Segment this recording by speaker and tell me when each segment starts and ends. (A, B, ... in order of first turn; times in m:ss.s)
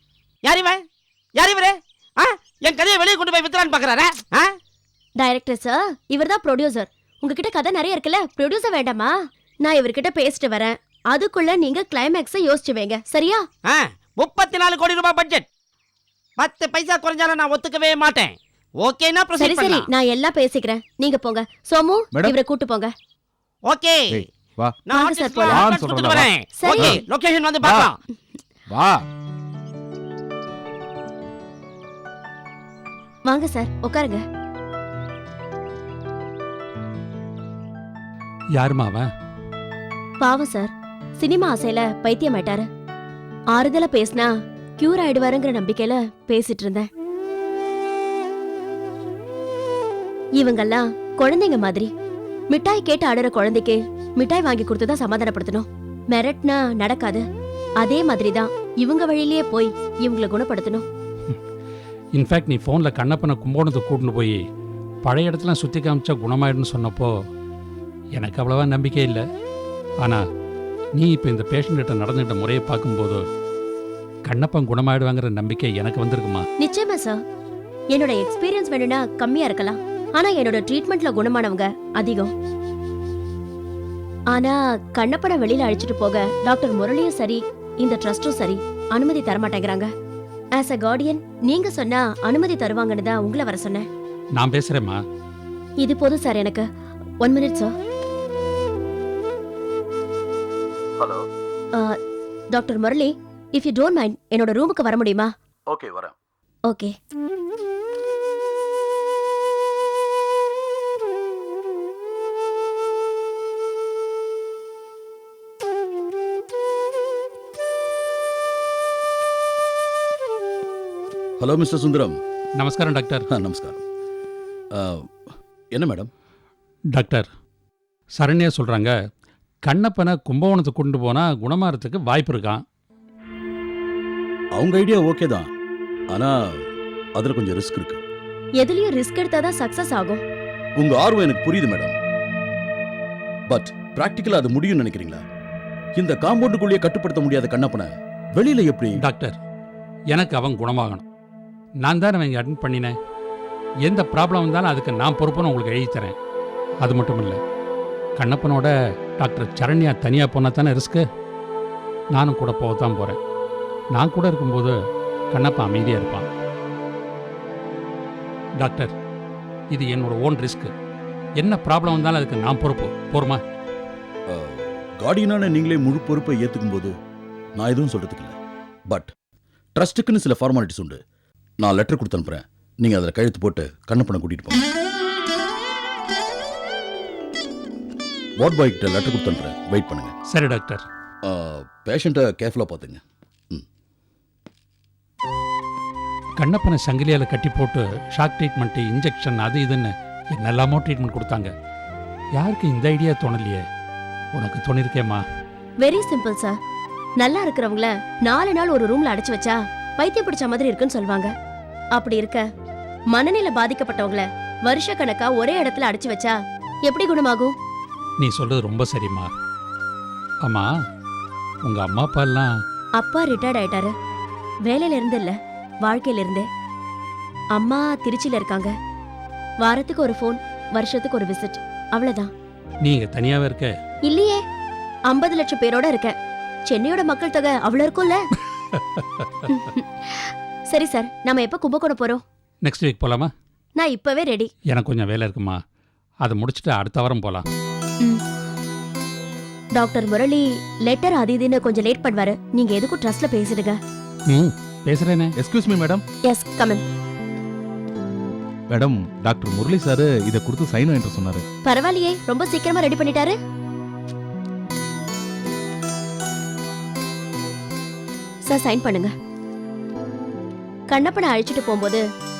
0:00.4-0:00.8 A
0:01.4-0:04.5 A
0:05.2-0:13.4 B
0:13.6-0:15.4 A
0:16.4-0:19.8 A
0:19.4-0:22.9 B
0:23.7-0:24.0 A
0:24.1-0:24.8 C
0:24.9-0:25.7 B
0:24.9-0:28.0 A
0:25.5-0:26.9 C
0:26.5-0:27.0 B
0:27.6-0:27.9 C
0:28.7-0:29.0 C
0:33.2-0:34.2 B
0:38.6-0:39.0 D
0:40.2-0:42.6 B
0:43.5-0:46.9 B
0:50.4-0:51.9 B
0:52.5-0:57.2 B
0:57.8-1:00.8 B
1:02.2-1:04.4 D
1:05.0-1:07.1 D
1:08.2-1:09.2 D
1:11.0-1:13.2 D
1:14.2-1:16.4 D
1:16.6-1:17.2 B
1:17.9-1:22.3 B
1:24.3-1:29.9 B
1:30.5-1:33.9 B
1:34.4-1:35.0 D
1:35.8-1:36.6 B
1:37.2-1:37.7 B
1:42.5-1:45.3 B
1:45.7-1:46.1 E
2:01.4-2:02.2 E
2:02.6-2:03.2 D
2:03.3-2:03.8 E
2:04.7-2:05.0 E
2:05.7-2:06.1 E
2:06.9-2:07.3 D
2:08.2-2:08.9 D
2:09.6-2:12.6 D
2:14.5-2:15.5 E
2:17.2-2:18.0 E
2:18.6-2:20.2 B
2:20.8-2:21.9 E
2:23.5-2:25.2 E
2:26.0-2:29.0 E
2:29.0-2:29.4 D
2:30.1-2:31.0 D
2:31.8-2:32.9 D
2:33.8-2:36.1 D
2:36.8-2:37.4 D
2:38.2-2:41.0 D
2:42.1-2:43.2 D
2:43.9-2:44.7 D
2:45.3-2:46.3 D
2:48.6-2:48.9 D
2:49.7-2:50.7 D
2:51.4-2:53.4 D
2:54.3-2:56.9 E
2:57.6-2:58.3 E
2:59.8-3:01.0 E
3:01.6-3:04.6 E
3:08.4-3:10.1 E
3:10.3-3:10.8 D
3:11.2-3:13.0 E
3:16.4-3:21.5 D
3:22.4-3:23.6 D
3:24.3-3:25.2 D
3:25.8-3:26.6 B
3:27.2-3:31.3 B
3:32.0-3:32.4 B
3:33.1-3:36.3 B
3:36.9-3:37.5 B
3:38.2-3:39.3 D
3:41.6-3:42.6 D
3:43.0-3:43.9 B
3:44.7-3:46.4 B
3:47.6-3:48.7 B
3:49.6-3:52.3 B
3:52.8-3:53.7 D
3:54.0-3:54.4 B
3:55.1-3:56.1 B
3:56.7-3:58.2 B
3:59.0-3:59.3 D
3:59.5-4:02.2 B
4:02.6-4:03.3 D
4:03.8-4:04.5 B
4:04.7-4:05.6 D
4:06.2-4:07.4 D
4:09.8-4:13.8 B
4:14.3-4:15.3 D
4:15.4-4:16.0 C
4:16.3-4:16.8 B
4:18.7-4:21.4 C
4:21.6-4:23.4 B
4:28.5-4:29.1 B
4:30.9-4:32.0 B